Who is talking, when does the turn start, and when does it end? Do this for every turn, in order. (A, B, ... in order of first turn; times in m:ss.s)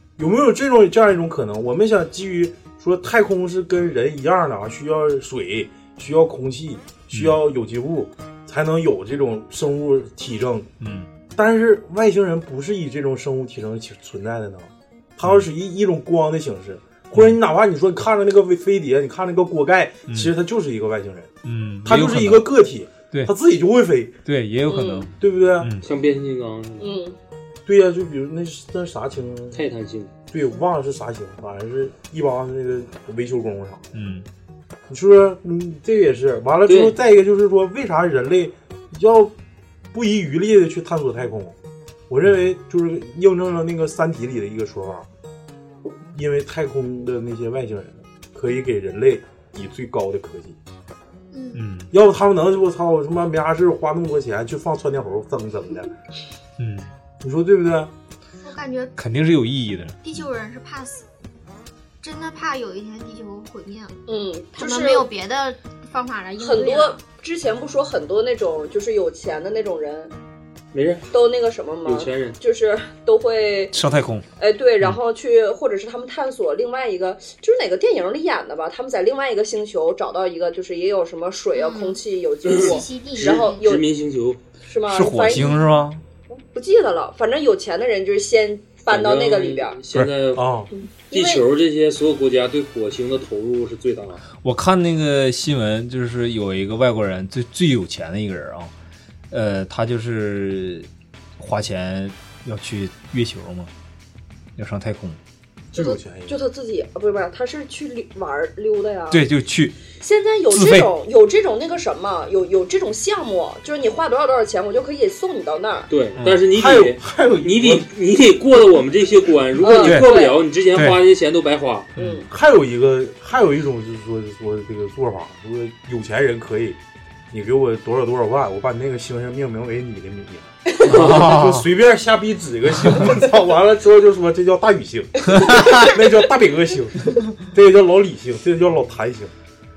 0:00.2-0:10.7 A
0:07.1-0:07.4 B
0:10.8-0:11.1 B
0:11.4-0:21.3 A
0:20.1-0:20.3 B
0:21.4-0:22.5 B
0:21.8-0:24.2 A
0:24.2-0:25.8 B
0:24.7-0:25.1 C
0:25.2-0:25.7 A
0:25.8-0:27.0 D
0:26.8-0:27.2 C
0:27.7-0:29.7 A
0:29.5-0:30.1 D
0:30.3-0:33.8 A
0:33.9-0:34.3 B
0:34.9-0:39.3 A
0:36.7-0:37.0 D
0:39.9-0:41.6 A
0:42.1-0:45.1 A
0:46.1-0:50.6 A
0:51.3-0:51.6 E
0:51.6-0:51.9 B
0:51.9-0:55.9 A
0:56.6-0:56.9 B
0:57.2-0:57.9 A
0:58.4-0:59.0 E
0:59.0-1:00.0 B
1:00.0-1:01.1 E
1:02.0-1:04.0 E
1:04.1-1:05.1 C
1:04.5-1:07.0 E
1:06.4-1:10.1 C
1:10.7-1:11.1 D
1:11.1-1:13.7 C
1:11.8-1:12.4 D
1:13.7-1:14.3 B
1:14.4-1:23.9 C
1:21.5-1:23.6 E
1:22.5-1:24.4 D
1:24.6-1:25.7 C
1:24.9-1:26.0 B
1:26.3-1:29.8 C
1:28.9-1:30.5 D
1:30.4-1:30.7 A
1:31.1-1:31.5 C
1:31.1-1:34.2 D
1:34.4-1:38.7 B
1:39.3-1:40.9 B
1:41.4-1:43.7 B
1:44.6-1:45.2 B
1:45.7-1:46.4 A
1:45.7-1:49.2 C
1:49.1-1:49.8 B
1:50.0-1:55.9 C
1:50.5-1:50.9 B
1:55.9-2:01.9 D
1:56.2-1:56.4 B
1:56.5-1:57.9 A
1:59.6-2:00.4 C
1:59.8-2:00.1 B
2:02.0-2:02.2 B
2:02.0-2:02.3 C
2:02.3-2:06.8 A
2:07.3-2:19.3 A
2:10.8-2:11.6 B
2:10.9-2:11.2 D
2:15.4-2:15.9 B